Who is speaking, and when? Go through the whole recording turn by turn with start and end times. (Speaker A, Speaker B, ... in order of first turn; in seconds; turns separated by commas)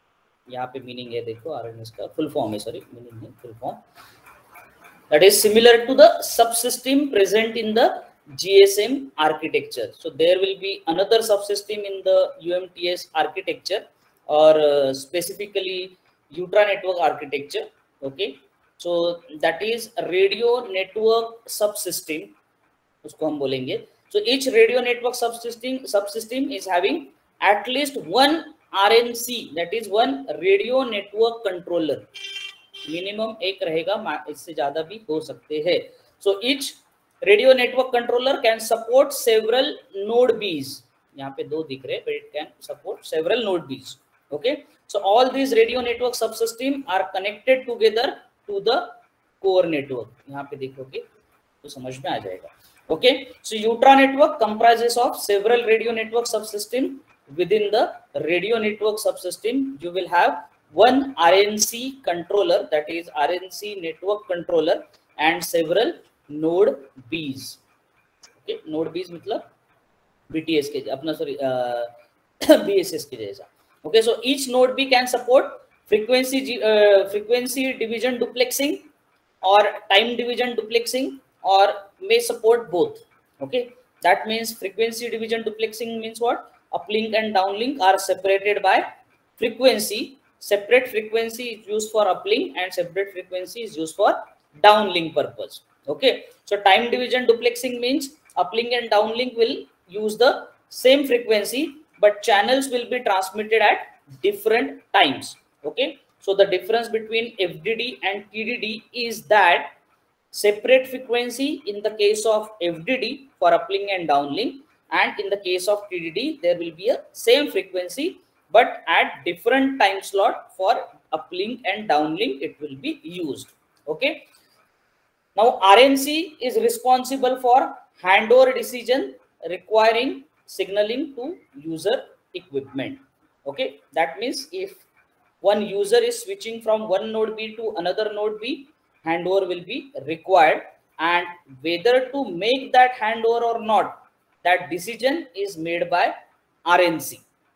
Speaker A: 0.5-3.8, Speaker A: 5.1-22.3, Speaker A: 23.0-32.1, Speaker A: 32.8-51.0, Speaker A: 51.6-67.6, Speaker A: 68.4-69.4, Speaker A: 70.3-71.9, Speaker A: 72.4-78.8, Speaker A: 79.4-88.8, Speaker A: 89.4-109.7, Speaker A: 110.3-124.2, Speaker A: 125.3-134.8, Speaker A: 135.4-146.1, Speaker A: 146.7-147.2